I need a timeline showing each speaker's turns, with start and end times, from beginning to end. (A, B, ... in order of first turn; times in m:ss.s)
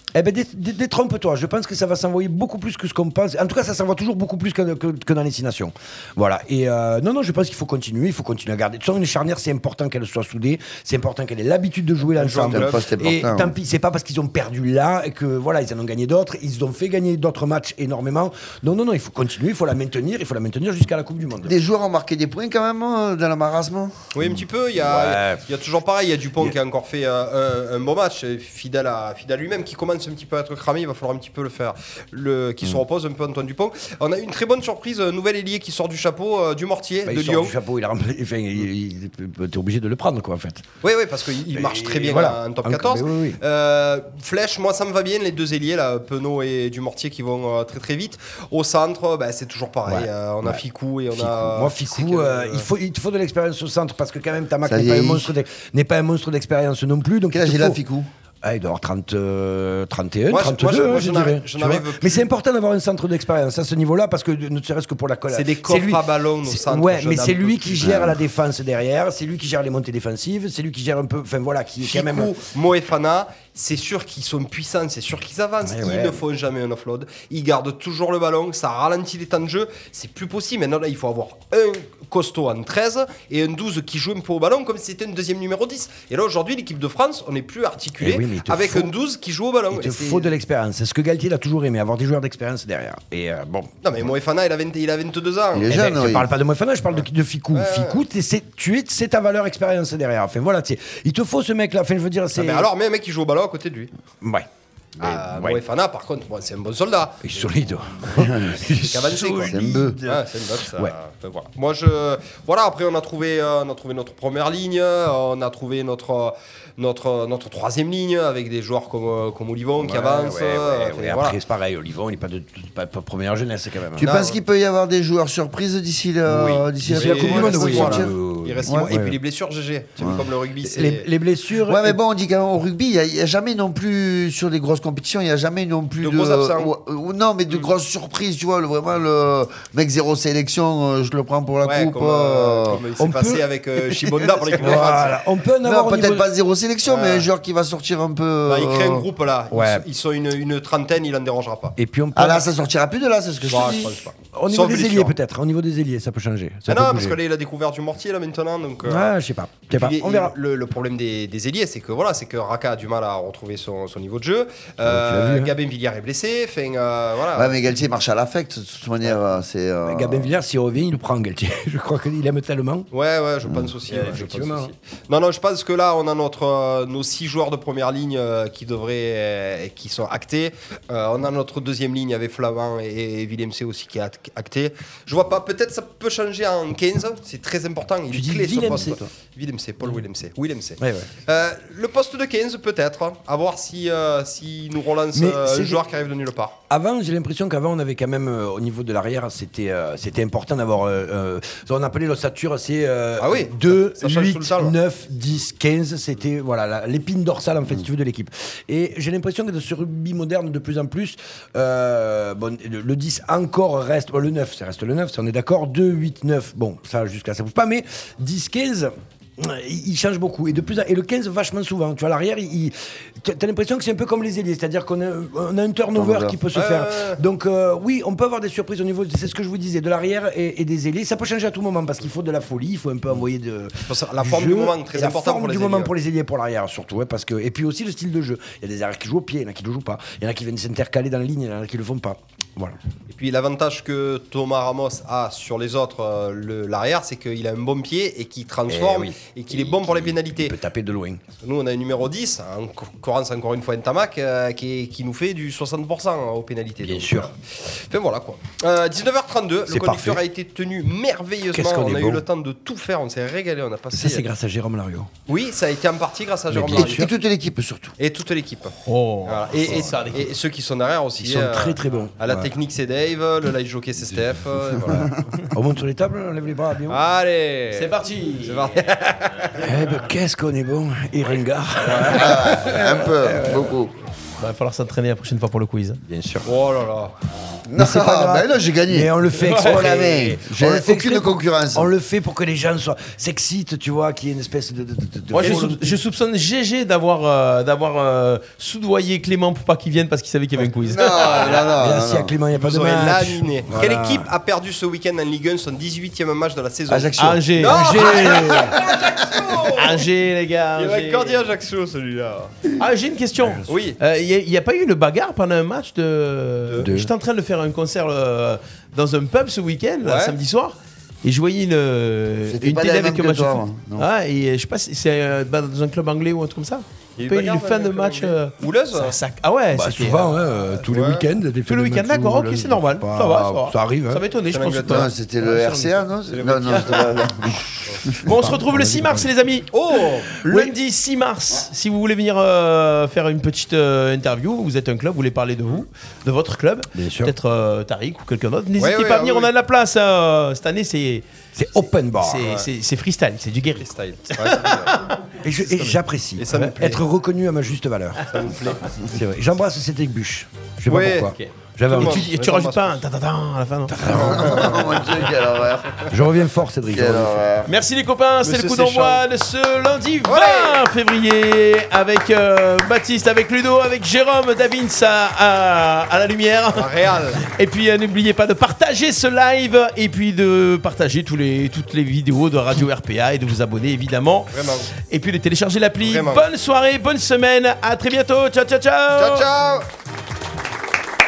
0:00.2-0:21.6 A
0:12.1-0:12.8 B
0:12.5-0:13.6 C
0:21.4-0:24.0 C
0:24.1-0:37.6 B
0:24.8-0:25.4 A
0:37.1-0:40.6 A
0:40.8-0:52.7 B
0:41.5-0:43.4 A
0:49.9-0:50.6 A
0:51.1-0:57.8 A
0:54.6-0:55.4 C
0:57.3-0:58.1 C
0:58.4-1:12.4 A
1:00.3-1:02.3 B
1:05.3-1:08.1 B
1:07.8-1:08.2 C
1:11.8-1:30.3 B
1:15.6-1:16.2 A
1:28.0-1:28.9 A
1:29.7-1:33.7 A
1:33.8-1:35.9 B
1:35.5-1:36.3 C
1:35.7-1:42.7 A
1:36.9-1:38.0 B
1:42.4-1:43.9 B
1:44.2-1:44.5 A
1:45.0-1:45.6 A
1:45.0-1:47.5 B
1:47.2-1:50.9 A
1:48.1-1:48.6 C
1:48.7-2:01.4 B
1:49.4-1:50.0 C
1:59.8-2:04.1 A
2:04.0-2:08.9 C
2:04.0-2:04.4 B
2:06.3-2:11.1 B
2:06.8-2:09.2 A
2:10.0-2:10.3 C
2:10.6-2:12.0 A
2:11.6-2:22.8 C
2:16.0-2:16.7 B
2:21.6-2:25.2 B
2:23.0-2:23.4 A
2:24.6-2:26.3 A
2:25.6-2:29.1 C
2:26.9-2:27.3 B
2:28.5-2:31.8 B
2:29.5-2:29.8 A
2:31.8-2:32.5 A
2:32.2-2:34.1 C
2:33.5-2:35.2 B
2:34.3-2:37.2 A
2:36.7-2:39.1 B
2:38.8-2:40.4 A
2:39.7-2:47.7 B
2:44.8-2:45.5 A
2:47.3-2:50.4 C
2:49.9-2:52.9 A
2:52.9-3:16.6 B
2:53.9-2:54.7 A
3:08.1-3:09.1 A
3:10.8-3:11.1 A
3:15.1-3:15.8 A
3:16.7-4:02.8 A
3:23.2-3:24.8 B
3:45.9-3:46.4 C
3:46.5-3:47.2 B
3:53.9-3:55.9 B
4:03.1-4:10.6 B
4:08.7-4:11.2 A
4:11.4-4:24.3 B
4:16.8-4:17.3 A
4:19.7-4:20.2 A
4:21.5-4:22.2 A
4:23.9-4:25.1 A
4:25.3-4:27.1 B
4:26.5-4:27.1 A
4:26.7-4:28.0 C
4:28.0-4:28.8 B
4:28.9-4:30.3 D
4:29.3-4:35.1 B
4:29.6-4:30.1 A
4:31.2-4:32.5 A
4:34.9-4:35.1 C
4:34.9-4:37.0 A
4:36.9-4:37.9 B
4:37.7-4:38.9 D
4:38.4-4:39.7 B
4:39.6-4:43.8 A
4:41.9-4:42.3 B
4:42.1-4:43.9 C
4:44.4-4:46.0 D
4:46.1-4:46.5 A
4:46.4-4:47.1 B
4:47.6-4:51.9 C
4:47.8-4:56.0 A
4:49.4-4:49.9 D
4:55.3-5:01.6 D
4:55.4-4:55.7 B
5:00.8-5:02.4 C
5:01.2-5:01.8 B
5:01.8-5:04.3 A
5:02.5-5:10.1 B
5:06.9-5:07.5 C
5:07.2-5:08.4 D
5:07.7-5:08.8 A
5:08.2-5:09.4 C
5:09.7-5:11.4 D
5:10.8-5:12.5 B
5:12.8-5:30.3 D
5:13.7-5:14.0 B
5:16.8-5:17.1 A
5:20.0-5:20.4 B
5:22.5-5:24.1 C
5:27.2-5:29.2 B
5:29.7-5:34.2 A
5:30.9-5:31.3 B
5:31.7-5:36.0 D
5:34.5-5:35.1 B
5:34.8-5:38.5 C
5:36.3-5:37.2 B
5:36.6-5:37.2 D
5:38.2-5:39.3 A
5:38.2-5:39.7 D
5:39.7-5:40.3 B
5:40.4-5:56.0 D
5:40.4-5:40.7 A
5:47.0-5:47.3 A
5:48.8-5:49.5 B
5:51.6-5:52.4 A
5:52.4-5:52.7 B
5:53.8-5:55.1 B
5:55.4-5:58.3 A
5:56.4-5:57.0 B
5:56.5-5:56.7 D
5:58.3-5:58.9 B
5:59.0-6:02.3 A
6:00.9-6:01.3 B
6:01.3-6:04.0 D
6:01.9-6:03.0 B
6:03.9-6:04.9 A
6:04.0-6:06.0 C
6:04.2-6:04.8 B
6:06.1-6:07.4 A
6:06.9-6:07.7 C
6:07.7-6:29.5 D
6:08.4-6:09.2 B
6:10.2-6:10.8 B
6:16.8-6:17.4 B
6:24.5-6:24.9 B
6:26.0-6:26.5 B
6:29.2-6:29.9 B